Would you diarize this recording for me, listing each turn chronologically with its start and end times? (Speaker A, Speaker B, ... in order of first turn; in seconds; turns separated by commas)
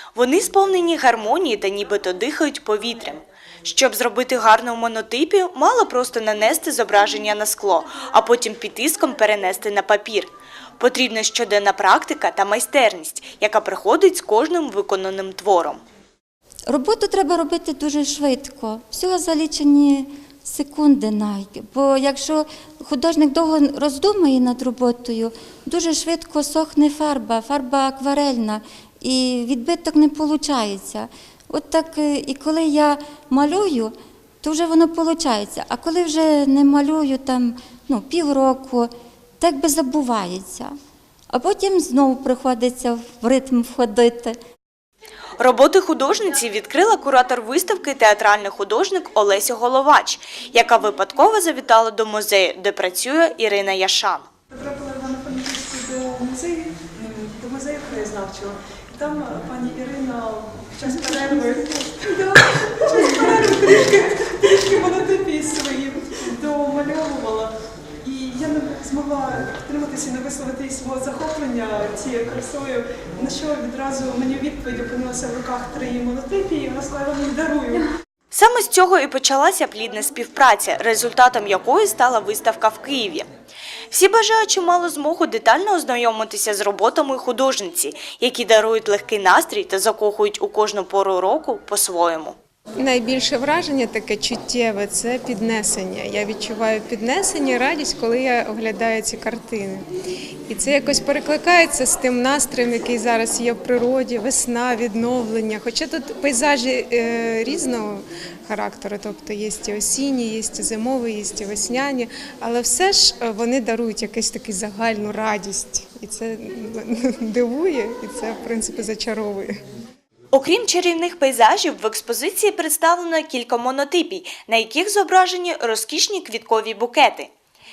Speaker A: 0.1-15.8, Speaker B: 16.7-40.7, Speaker B: 41.3-44.4, Speaker A: 45.4-54.3, Speaker C: 54.5-67.5, Speaker C: 68.0-77.8, Speaker A: 78.3-83.3, Speaker A: 83.9-92.4, Speaker D: 92.8-99.9, Speaker D: 100.5-119.6, Speaker A: 120.3-127.3